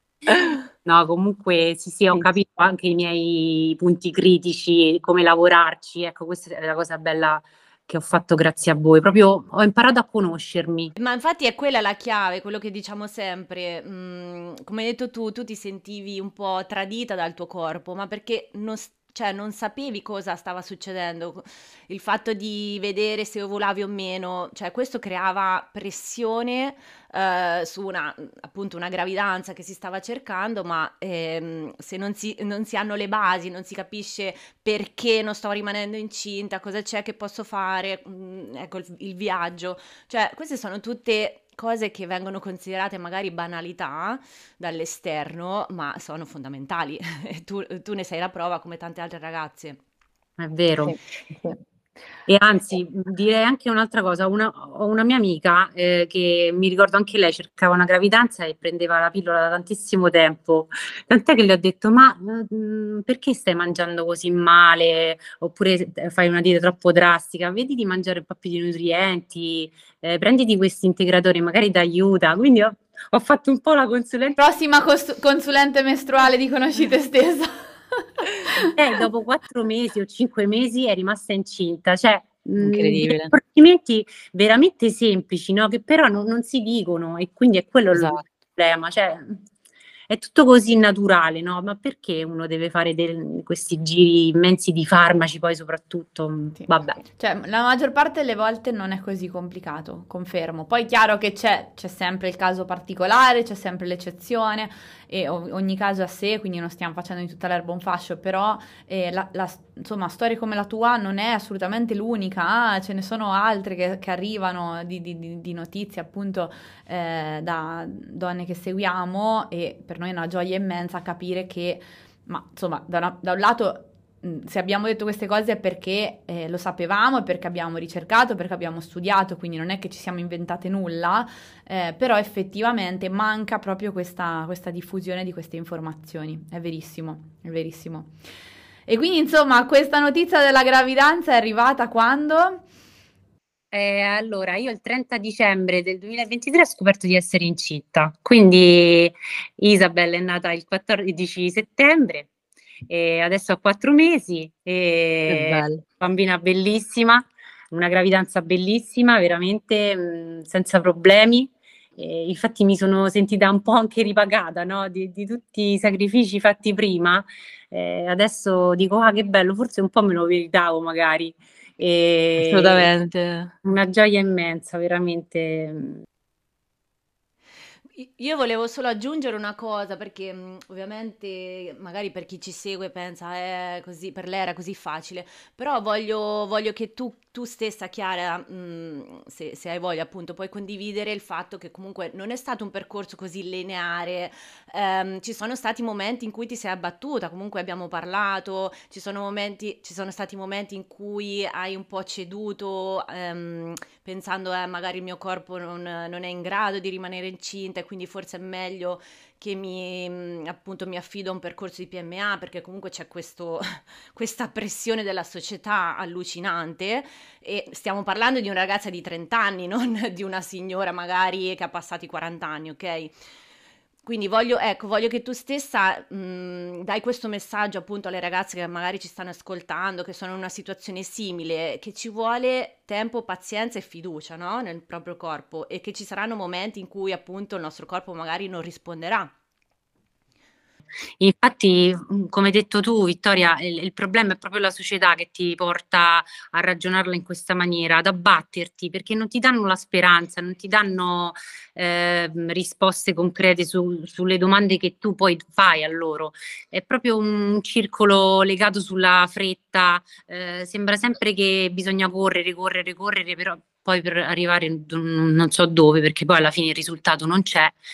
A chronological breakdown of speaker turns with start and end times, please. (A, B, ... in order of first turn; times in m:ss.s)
0:00.3-0:00.6 A
0:00.8-0:10.9 B
0:11.0-0:49.8 A
0:50.4-0:51.0 B
0:52.3-1:14.4 B
1:14.4-1:18.7 C
1:18.6-1:29.4 B
1:22.6-1:23.3 A
1:27.9-1:28.2 A
1:30.1-1:37.0 B
1:36.6-2:18.1 C
2:18.9-2:22.6 C
2:23.7-2:32.3 B
2:32.9-2:52.9 B
2:35.3-2:35.8 A
2:52.4-2:53.5 A
2:53.6-2:56.0 B
2:58.0-3:43.1 A
3:44.0-3:59.3 A
4:01.2-4:27.8 B